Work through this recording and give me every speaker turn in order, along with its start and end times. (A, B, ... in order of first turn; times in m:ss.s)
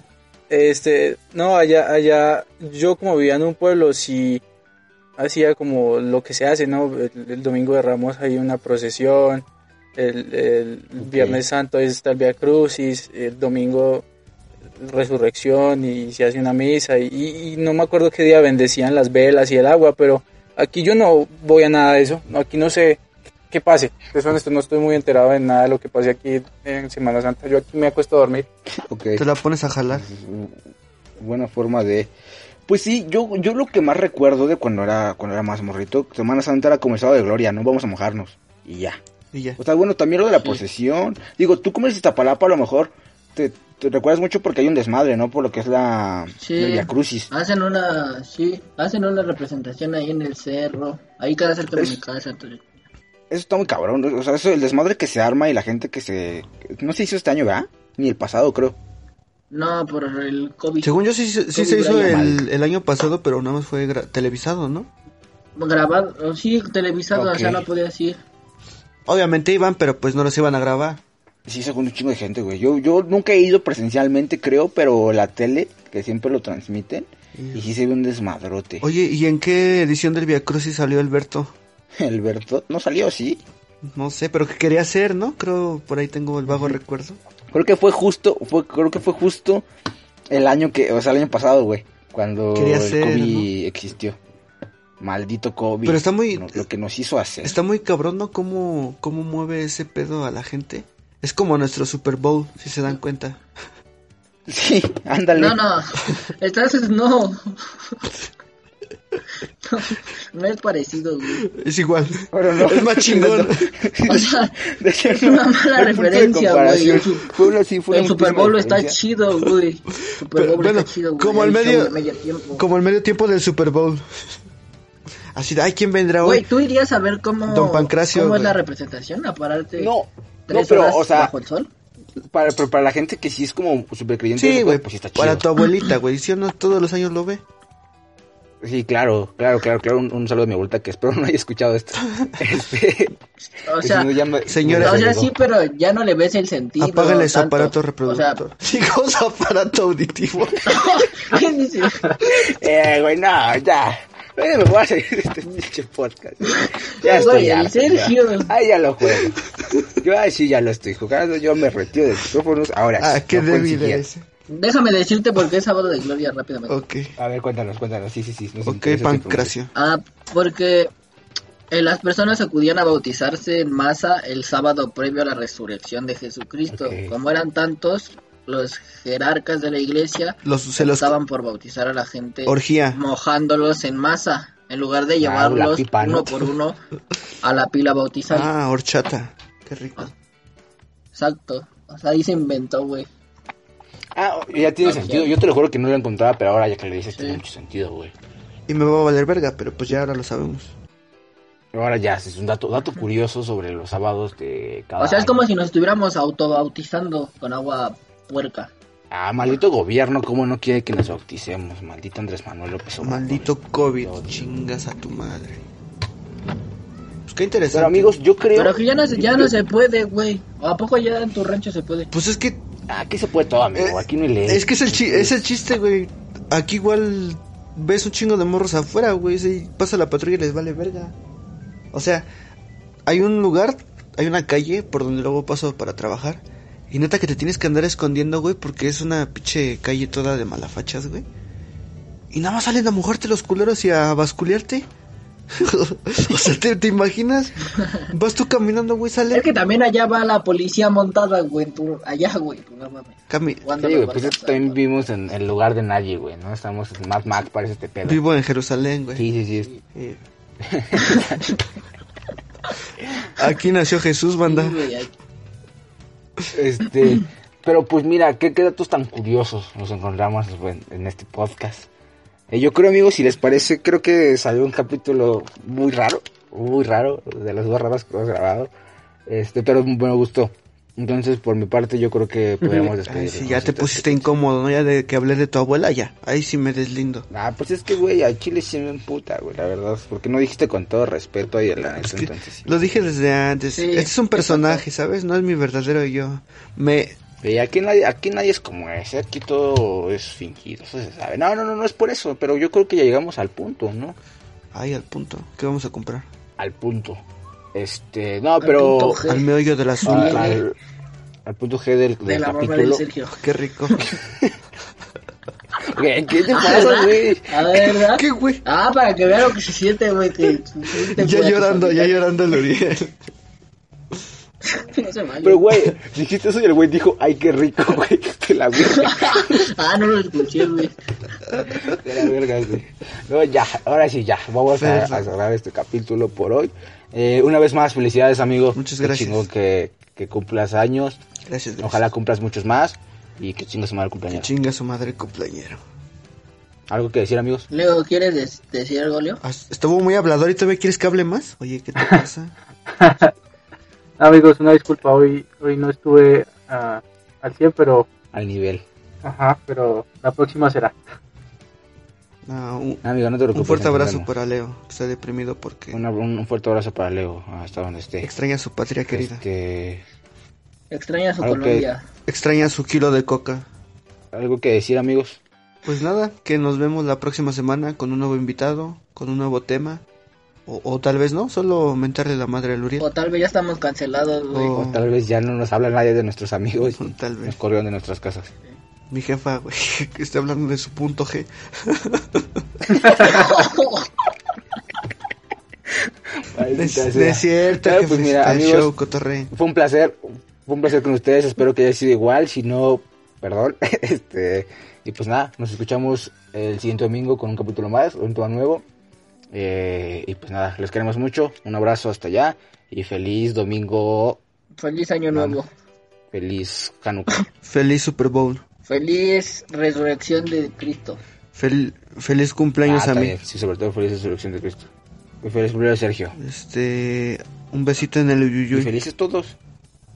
0:00.5-0:04.4 A
0:05.2-0:09.4 A
0:10.0-0:14.0 A
0:11.0-0:11.4 B
0:14.8-0:28.4 A
0:28.9-0:29.2 B
0:29.2-0:30.1 C
0:29.9-0:30.6 B
0:31.2-0:32.1 B
0:32.7-0:39.0 B
0:39.3-0:39.6 C
0:39.6-0:47.3 B
0:46.4-0:52.7 D
0:53.3-0:58.8 B
0:59.5-1:00.9 D
1:00.8-1:04.9 C
1:01.5-1:02.2 D
1:02.0-1:02.4 B
1:05.6-1:08.2 D
1:07.1-1:07.6 B
1:09.0-1:11.0 C
1:11.4-1:18.8 B
1:17.3-1:17.6 C
1:18.8-1:21.5 C
1:22.0-1:23.4 B
1:23.8-1:27.2 C
1:27.5-1:29.6 B
1:30.3-1:34.2 B
1:32.5-1:33.5 C
1:35.0-1:37.6 B
1:35.8-1:36.6 C
1:37.4-1:43.4 C
1:44.5-1:45.6 B
1:45.3-1:48.0 D
1:49.6-1:51.4 D
1:51.4-1:53.7 C
1:52.3-1:59.0 B
1:54.1-1:54.5 D
1:55.1-1:57.3 D
1:57.9-2:02.6 D
2:00.3-2:02.0 C
2:02.6-2:04.1 C
2:05.3-2:06.4 C
2:06.2-2:09.9 D
2:07.5-2:08.6 C
2:09.8-2:11.3 B
2:10.5-2:11.7 D
2:12.3-2:15.4 B
2:14.3-2:17.4 C
2:18.6-2:23.2 B
2:23.6-2:24.1 D
2:23.8-2:25.3 B
2:24.4-2:25.1 C
2:24.8-2:28.4 D
2:26.8-2:30.8 C
2:30.6-2:32.2 D
2:32.2-2:39.4 B
2:36.4-2:38.5 D
2:40.0-2:44.0 B
2:43.0-2:44.2 C
2:44.5-2:46.8 D
2:46.7-2:47.1 C
2:47.2-2:49.5 B
2:48.6-2:49.7 C
2:49.7-2:50.9 D
2:51.7-3:06.8 D
2:56.7-2:57.1 B
3:00.4-3:01.2 C
3:02.4-3:03.0 C
3:05.2-3:06.5 B
3:07.4-3:08.5 D
3:08.3-3:10.1 C
3:11.1-3:13.1 D
3:14.2-3:18.1 B
3:14.8-3:15.3 D
3:18.7-3:20.7 C
3:21.7-3:25.4 B
3:25.0-3:28.7 D
3:29.1-3:34.4 B
3:33.0-3:35.6 C
3:37.3-3:38.1 C
3:37.7-3:39.5 B
3:38.5-3:42.1 D
3:42.1-3:42.6 C
3:42.9-3:45.3 B
3:43.7-3:51.2 C
3:51.9-3:52.3 C
3:53.0-4:01.2 C
4:02.3-4:04.9 C
4:05.5-4:09.5 C
4:09.3-4:14.8 D
4:13.3-4:13.6 C
4:13.8-4:18.2 B
4:18.0-4:19.3 C
4:19.2-4:19.7 B
4:19.9-4:20.2 C
4:20.6-4:21.5 B
4:23.4-4:24.8 C
4:24.4-4:25.1 D
4:26.5-4:31.9 B
4:32.5-4:38.7 B
4:39.3-4:44.3 B
4:43.0-4:47.3 C
4:47.3-4:52.7 B
4:52.0-4:57.2 C
4:53.7-4:54.8 D
4:57.4-5:04.2 B
5:04.7-5:06.3 C
5:06.6-5:07.2 B
5:07.7-5:09.2 B
5:08.6-5:09.5 D
5:09.2-5:10.6 C
5:10.0-5:10.6 D
5:10.1-5:10.7 B
5:11.4-5:13.0 B
5:12.2-5:13.4 D
5:13.3-5:14.0 C
5:14.0-5:14.5 B
5:15.8-5:17.8 B
5:16.5-5:22.2 D
5:18.0-5:18.6 C
5:21.0-5:23.2 C
5:24.6-5:25.6 D
5:25.4-5:29.6 B
5:28.8-5:30.9 D
5:31.7-5:41.2 B
5:34.7-5:35.3 C
5:38.7-5:39.4 C
5:41.4-5:42.0 C
5:41.8-5:44.5 B
5:44.3-5:45.8 C
5:46.9-5:47.7 B
5:47.7-5:49.4 D
5:49.4-5:52.5 C
5:53.0-5:53.3 A
5:54.2-5:58.1 A
5:58.3-5:58.8 B
5:59.2-6:01.0 A
6:02.4-6:03.0 C
6:03.0-6:04.3 B
6:03.5-6:06.0 C
6:05.9-6:08.3 B
6:08.2-6:09.4 C
6:09.1-6:10.0 B
6:10.9-6:12.0 D
6:11.4-6:11.8 B
6:12.3-6:13.6 C
6:14.3-6:15.4 B
6:15.8-6:20.0 C
6:20.6-6:23.1 C
6:23.0-6:24.9 D
6:24.5-6:25.1 C
6:24.7-6:28.5 B
6:26.9-6:27.6 C
6:29.1-6:32.9 C
6:33.0-6:34.1 D
6:36.4-6:38.9 B
6:36.7-6:39.5 C
6:39.5-6:48.8 B
6:49.5-6:54.4 B
6:54.8-6:55.7 D
6:55.3-6:55.6 B
6:56.3-6:57.4 B
6:57.6-6:58.6 C
6:58.9-7:01.2 D
7:01.5-7:03.4 C
7:02.8-7:04.9 B
7:05.4-7:06.4 B
7:06.3-7:08.9 C
7:08.7-7:09.5 B